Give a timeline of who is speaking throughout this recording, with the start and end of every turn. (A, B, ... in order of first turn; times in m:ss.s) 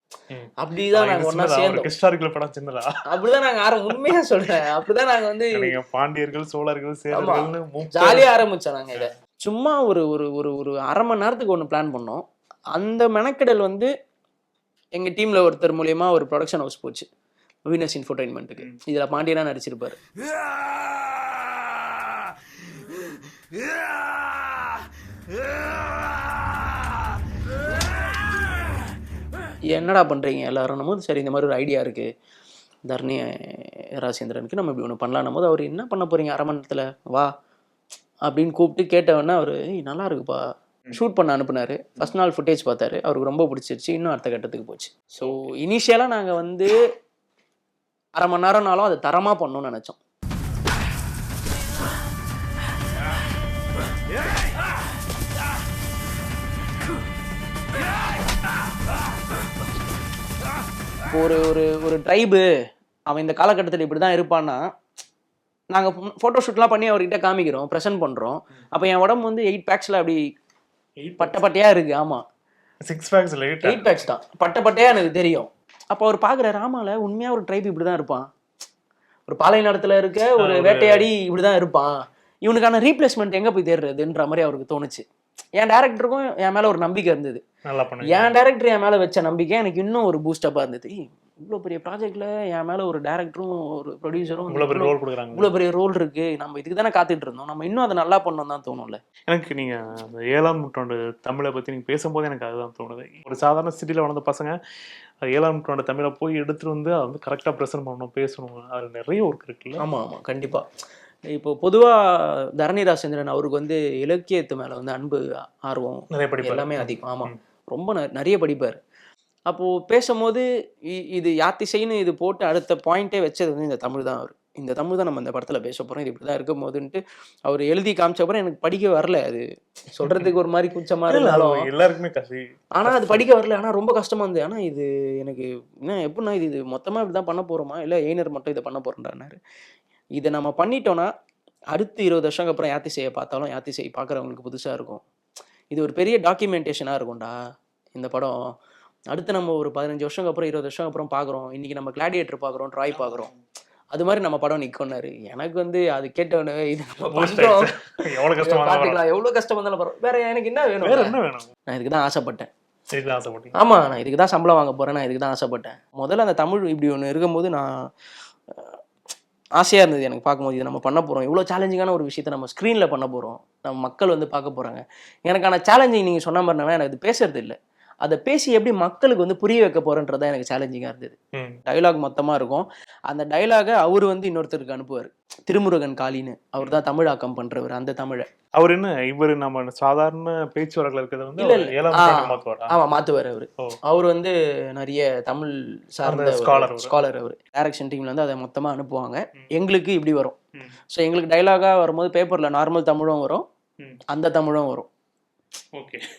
0:00.3-0:02.9 A
0:00.6-0:01.9 B
0:03.1-0:05.7 B
0:05.5-0:08.3 A
0:07.1-0:12.2 B
0:12.7-0:13.9 B
0:15.0-0:17.0 B
0:17.7-0:20.0 B
0:29.7-0:32.1 B
0:32.8-0:37.3 B
0:38.2-0:40.4 B
0:40.9-0:46.7 B
0:48.2-0:50.0 B
1:01.1-1:02.4 B
1:03.1-1:04.6 B
1:05.7-1:10.2 B
1:11.0-1:11.4 A
1:11.2-1:12.2 B
1:12.8-1:13.9 A
1:13.6-1:18.2 B
1:19.3-1:25.0 B
1:20.4-1:21.1 A
1:25.6-1:27.4 B
1:27.6-1:28.3 A
1:28.0-1:39.0 B
1:34.5-1:35.5 A
1:39.3-1:44.6 A
1:45.3-1:49.8 A
1:49.8-1:50.6 B
1:51.3-1:52.0 B
1:52.6-1:58.8 B
1:56.1-1:57.3 A
1:59.5-2:11.6 B
2:11.1-2:13.2 A
2:12.8-2:19.4 B
2:20.2-2:21.1 B
2:21.7-2:25.0 B
2:25.7-2:27.3 B
2:27.9-2:28.4 B
2:29.1-2:33.3 B
2:33.9-2:37.7 B
2:37.1-2:39.0 A
2:38.3-2:41.1 B
2:40.8-2:41.5 A
2:41.7-2:42.5 B
2:42.9-2:43.5 A
2:43.5-2:47.7 B
2:48.5-2:48.8 B
2:49.6-3:01.2 B
3:01.7-3:08.2 B
3:08.6-3:12.7 A
3:11.4-3:20.4 B
3:16.1-3:17.0 A
3:20.9-3:23.4 B
3:24.1-3:24.9 B
3:25.7-3:26.0 A